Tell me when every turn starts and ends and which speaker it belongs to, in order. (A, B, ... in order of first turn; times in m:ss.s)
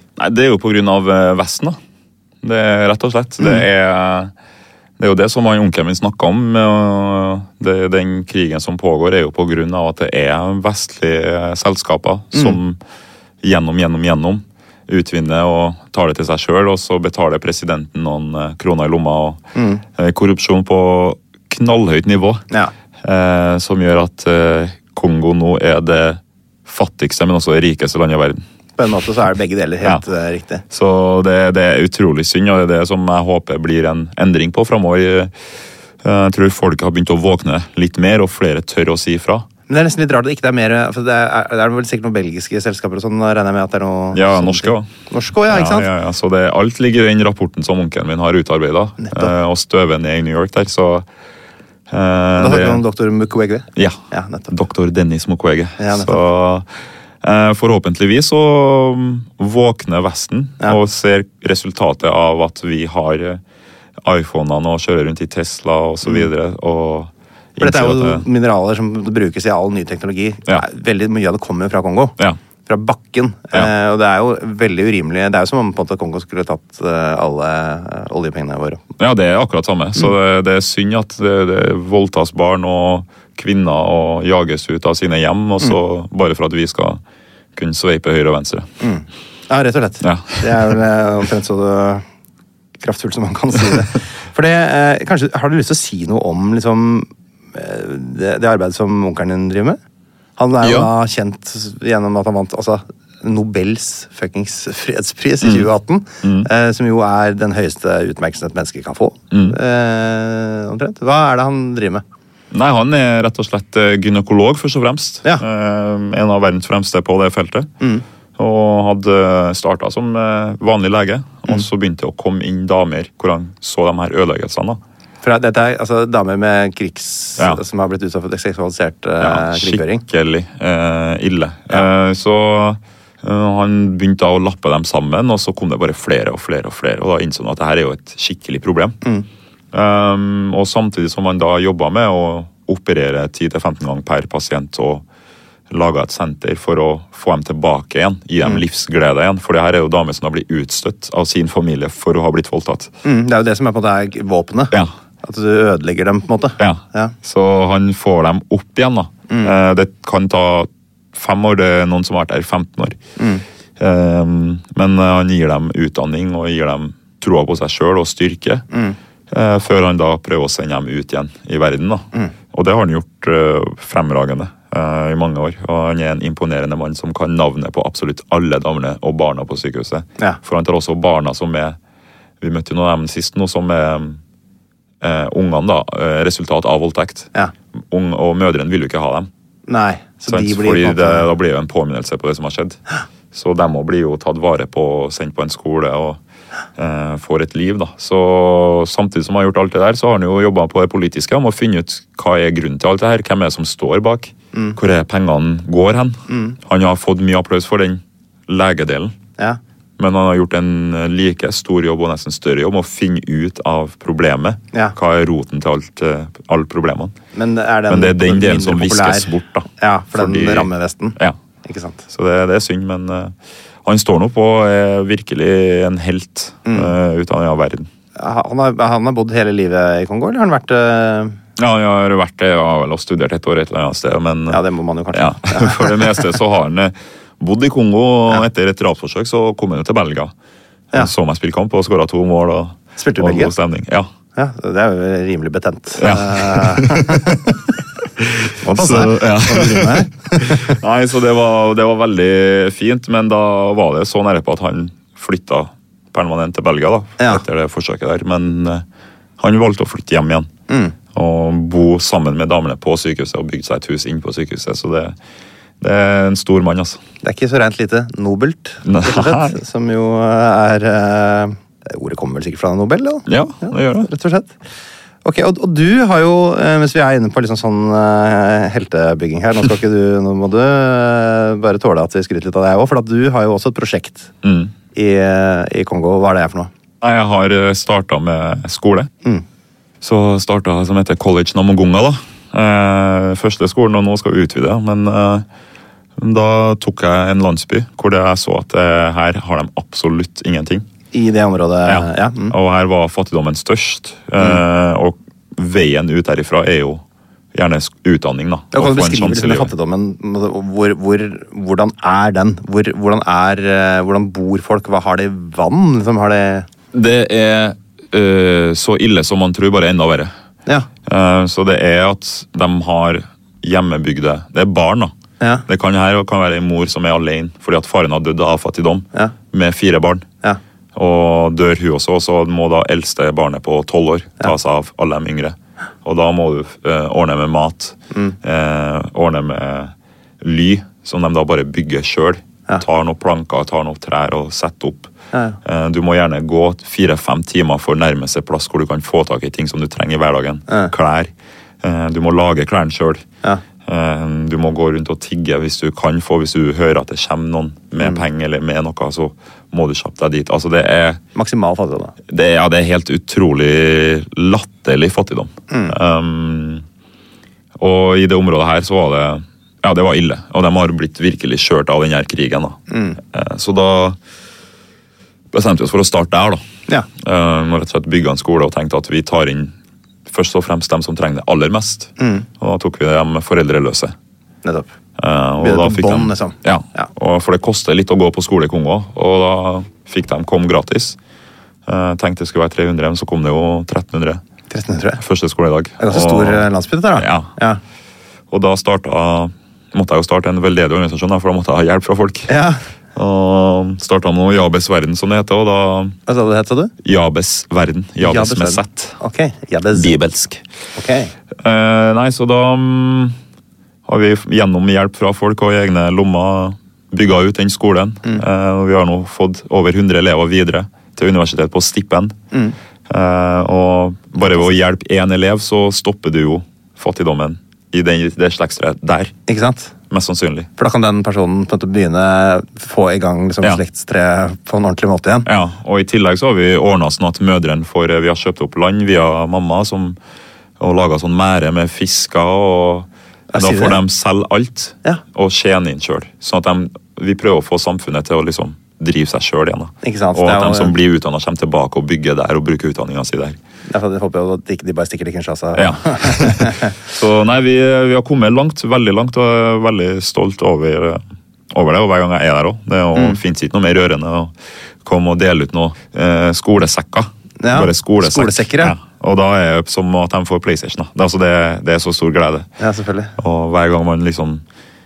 0:00.2-0:01.8 A
0:02.4-0:04.3 A
0:05.0-0:12.8 A
0:13.4-0:19.4 A
0:19.6-0:19.8 B
0:20.0-0:22.4 A
0:23.0-0:28.4 A
0:28.8-0:30.6 B
0:30.7-0:35.3 A
0:36.0-0:39.5 A
0:39.7-0:45.9 B
0:44.1-0:44.9 A
0:45.5-0:51.1 A
0:49.0-0:49.3 B
0:51.9-0:52.8 A
0:52.4-0:54.5 B
0:53.8-0:56.7 A
0:55.8-0:56.2 B
0:57.2-1:03.4 A
1:04.0-1:08.2 A
1:07.6-1:18.8 B
1:19.0-1:27.0 A
1:27.6-1:28.7 A
1:28.8-1:32.0 B
1:30.0-1:30.7 A
1:32.8-1:39.8 B
1:40.4-1:52.0 B
1:40.6-1:40.9 A
1:45.4-1:45.7 A
1:46.2-1:46.5 A
1:52.5-1:57.7 A
1:58.4-2:04.8 A
2:05.2-2:10.0 B
2:09.2-2:19.0 A
2:19.7-2:25.0 A
2:25.7-2:32.9 A
2:33.0-2:37.1 B
2:36.6-2:43.0 A
2:43.2-2:43.4 B
2:43.8-2:48.7 A
2:48.7-2:49.0 B
2:49.3-3:01.8 A
3:02.4-3:04.2 A
3:05.0-3:07.3 A
3:07.9-3:09.3 A
3:09.7-3:11.3 B
3:10.3-3:12.8 A
3:13.3-3:16.2 A
3:16.8-3:29.2 A
3:26.3-3:26.6 B
3:30.0-3:37.2 A
3:37.4-3:42.0 B
3:37.9-3:41.4 A
3:42.1-3:43.3 A
3:43.8-3:47.9 A
3:46.7-3:46.9 B
3:48.2-3:51.4 B
3:51.6-4:00.3 A
3:54.5-3:56.2 B
4:00.9-4:04.1 A
4:03.0-4:03.5 B
4:04.4-4:07.5 B
4:06.0-4:07.5 A
4:08.2-4:18.8 A
4:08.6-4:10.8 B
4:19.4-4:20.5 A
4:20.7-4:21.0 B
4:21.1-4:25.2 A
4:25.8-4:27.0 A
4:27.2-4:34.6 B
4:28.9-4:29.6 A
4:33.3-4:34.1 A
4:35.2-4:44.3 B
4:44.4-4:44.7 A
4:44.9-4:46.7 B
4:47.0-4:49.1 A
4:50.0-4:55.5 A
4:56.2-5:00.8 A
5:01.1-5:02.5 B
5:01.9-5:07.0 A
5:07.5-5:09.7 A
5:08.7-5:16.7 B
5:16.9-5:20.3 A
5:21.1-5:25.1 A
5:25.7-5:30.3 A
5:31.0-5:45.1 A
5:45.6-5:51.3 A
5:51.8-5:53.2 A
5:53.9-6:01.2 A
5:58.0-5:58.2 B
6:01.4-6:02.1 B
6:02.3-6:06.8 A
6:07.8-6:14.2 A
6:12.9-6:13.2 B
6:15.5-6:16.6 A
6:17.2-6:19.7 A
6:20.3-6:24.1 A
6:22.2-6:22.5 B
6:24.6-6:24.9 B
6:25.2-6:31.2 A
6:25.6-6:27.1 B
6:31.9-6:34.4 A
6:34.7-6:35.2 B
6:35.2-6:37.5 A
6:36.0-6:37.8 B
6:38.5-6:42.5 A
6:42.5-6:42.8 B
6:43.2-6:46.2 A
6:46.3-6:46.9 B
6:47.0-6:49.2 A
6:48.2-6:50.2 B
6:49.9-6:50.6 A
6:51.0-6:51.3 B
6:51.6-6:53.4 A
6:54.1-7:02.4 A
7:03.1-7:09.4 A
7:04.4-7:04.7 B
7:09.5-7:09.9 B
7:10.1-7:10.7 A
7:10.8-7:15.5 B
7:15.5-7:20.2 A
7:20.8-7:33.6 A
7:23.5-7:24.0 B
7:30.0-7:30.9 B
7:33.9-7:36.9 B
7:35.8-7:44.5 A
7:45.0-7:52.7 A
7:47.6-7:48.9 B
7:52.8-7:53.3 B
7:53.4-7:54.6 A